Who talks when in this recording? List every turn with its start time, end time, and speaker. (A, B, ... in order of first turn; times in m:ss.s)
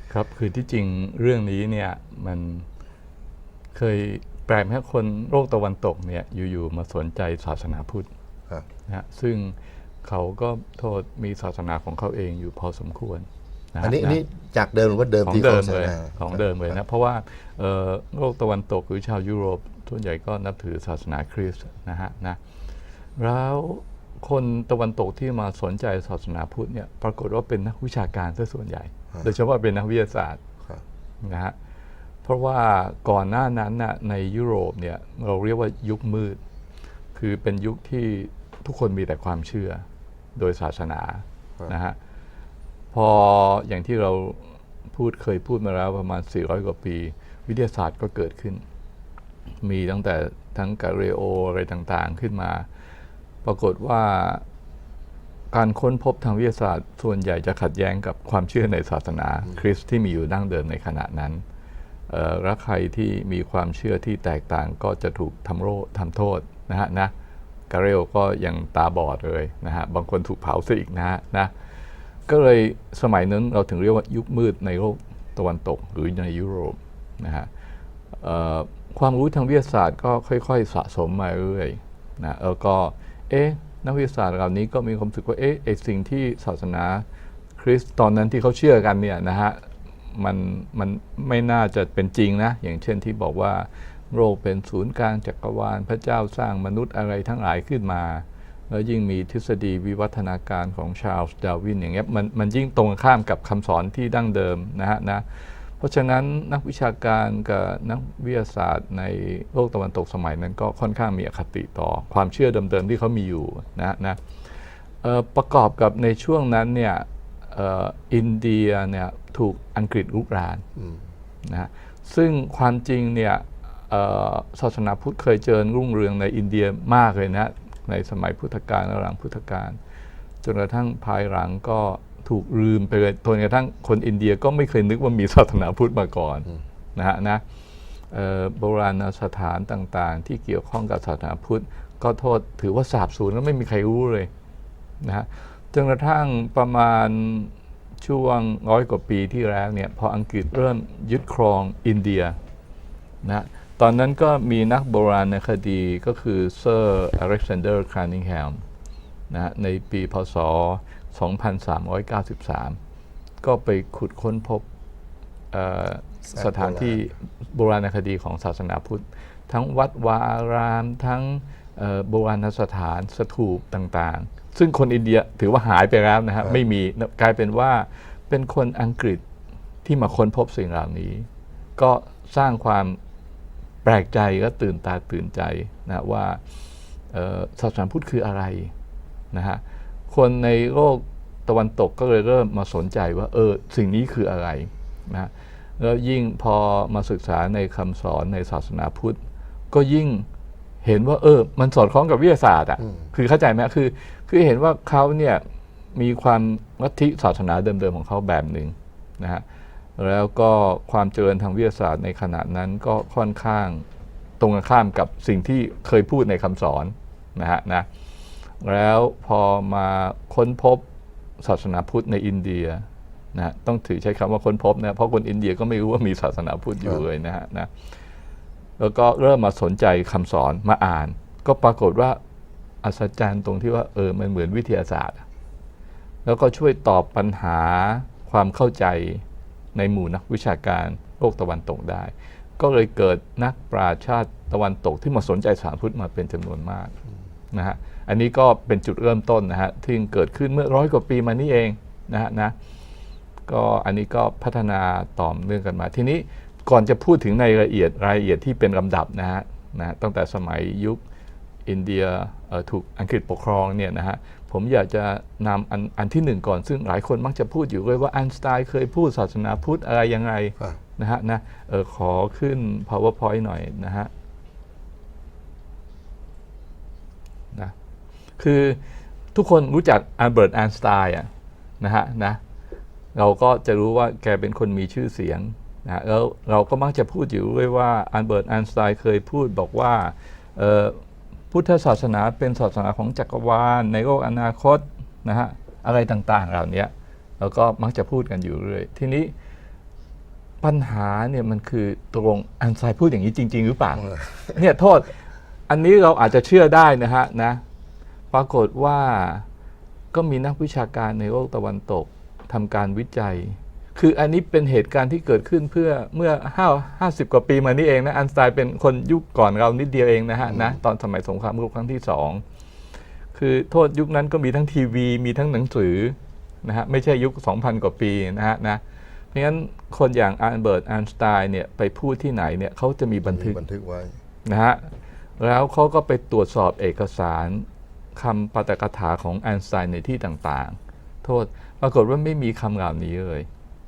0:00.1-0:02.7 A
0:03.8-0:08.1 A
0:08.9-0:14.2 A
0:13.8-0:16.8 B
0:15.2-0:22.4 A
0:23.2-0:30.4 A
0:31.2-0:31.6 A
0:32.2-0:36.4 A
0:37.1-0:39.8 A
0:40.4-0:42.0 A
0:42.9-0:48.6 A
0:49.6-0:52.7 A
0:53.4-0:54.4 A
0:55.5-1:01.4 A
1:02.1-1:07.1 A
1:07.7-1:11.5 A
1:12.3-1:17.5 A
1:18.2-1:27.0 A
1:27.6-1:54.2 A
1:55.0-2:00.6 A
2:00.8-2:01.0 B
2:01.5-2:09.8 A
2:10.4-2:17.4 A
2:18.1-2:24.3 A
2:25.0-2:32.4 A
2:33.2-2:38.6 A
2:39.3-2:42.8 A
2:43.4-2:44.6 A
2:45.5-2:59.2 A
2:46.3-2:47.0 B
2:59.8-3:03.0 A
3:03.8-3:06.4 A
3:07.1-3:08.7 A
3:09.3-3:19.2 A
3:19.7-3:20.3 A
3:20.8-3:25.4 A
3:26.0-3:29.4 A
3:30.0-3:33.8 A
3:34.4-3:37.9 A
3:38.6-3:40.8 A
3:41.4-3:47.7 A
3:48.8-3:52.2 A
3:52.8-3:55.2 A
3:56.2-4:06.9 A
4:07.5-4:12.6 A
4:13.5-4:21.0 A
4:21.7-4:34.1 A
4:38.4-4:38.8 A
4:39.3-4:41.3 A
4:41.8-4:42.4 A
4:43.2-4:51.0 A
4:51.5-4:59.3 A
5:00.6-5:05.1 A
5:04.0-5:04.6 B
5:05.7-5:07.6 A
5:08.3-5:09.5 A
5:10.1-5:22.4 A
5:20.5-5:20.8 B
5:23.3-5:28.8 A
5:29.3-5:33.6 A
5:33.3-5:34.2 B
5:34.4-5:43.5 A